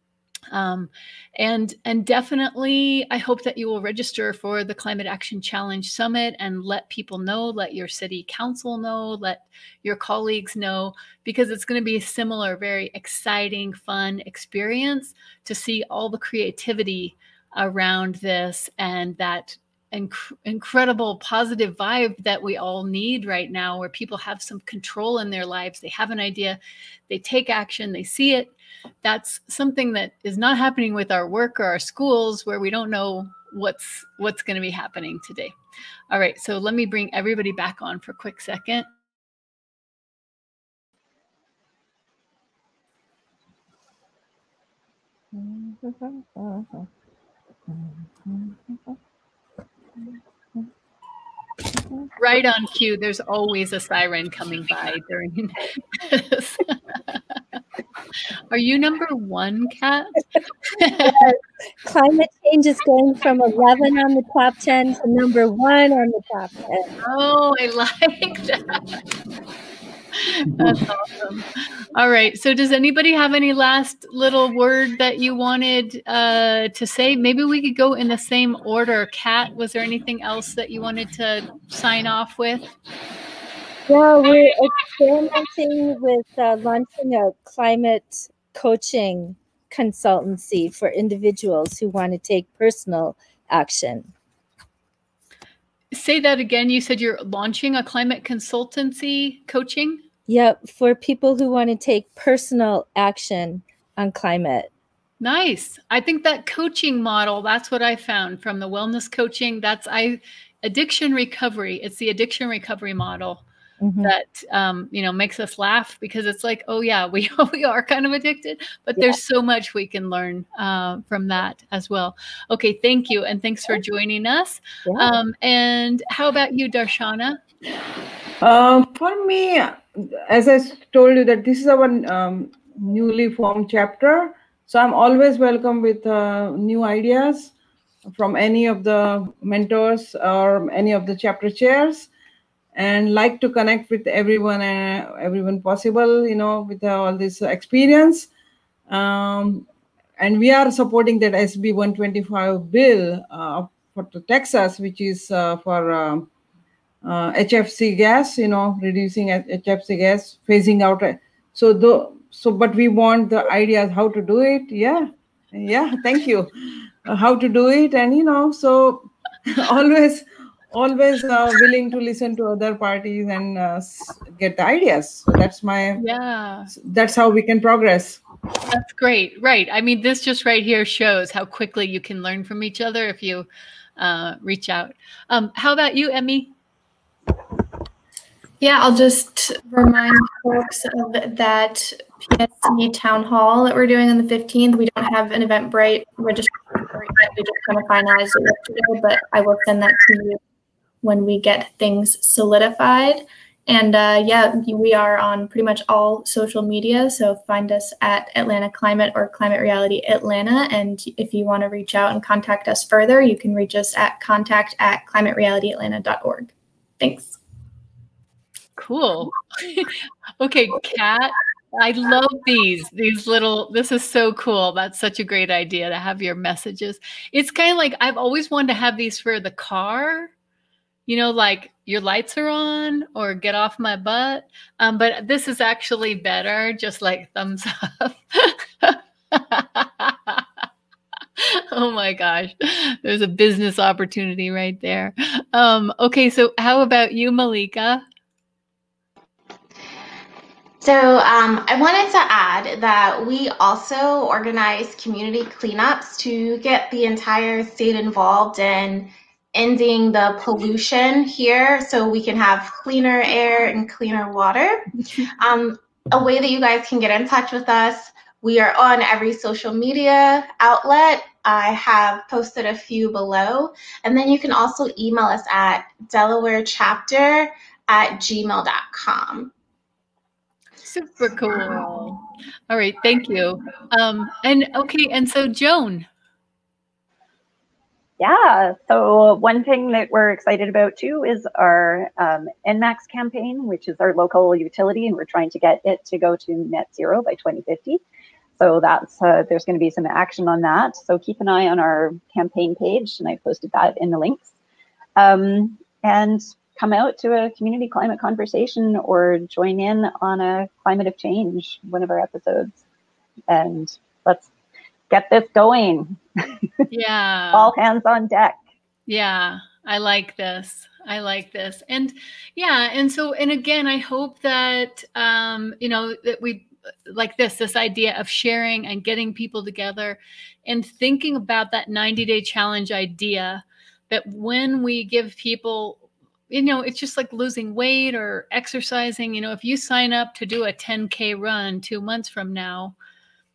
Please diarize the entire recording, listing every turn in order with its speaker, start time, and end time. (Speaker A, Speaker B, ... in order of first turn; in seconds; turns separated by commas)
Speaker A: 0.5-28.5, Speaker A: 29.0-35.5, Speaker A: 36.1-38.9, Speaker B: 45.3-46.9, Speaker B: 47.7-48.9, Speaker A: 52.2-57.4, Speaker A: 58.5-61.3, Speaker B: 61.0-66.9, Speaker A: 67.0-68.8, Speaker A: 70.2-82.7, Speaker B: 83.9-94.1, Speaker A: 95.9-100.0, Speaker B: 100.3-104.7, Speaker A: 105.2-113.4, Speaker B: 113.8-114.1, Speaker A: 114.0-127.4, Speaker C: 128.4-137.5, Speaker C: 138.1-142.1, Speaker C: 142.7-148.3, Speaker C: 148.9-156.3, Speaker C: 157.0-166.5, Speaker C: 167.1-176.0, Speaker A: 176.0-176.7, Speaker C: 176.7-178.2, Speaker A: 178.7-186.5, Speaker D: 188.6-200.4, Speaker D: 201.0-217.4, Speaker A: 218.8-230.3, Speaker A: 231.1-240.4, Speaker A: 241.4-248.0, Speaker E: 250.8-264.9, Speaker E: 265.4-279.5, Speaker A: 280.8-286.1, Speaker F: 288.2-298.0, Speaker F: 298.6-304.5, Speaker F: 305.2-312.8, Speaker F: 313.5-314.5, Speaker F: 315.1-316.7, Speaker A: 316.9-317.7, Speaker F: 317.5-318.6, Speaker A: 319.1-343.0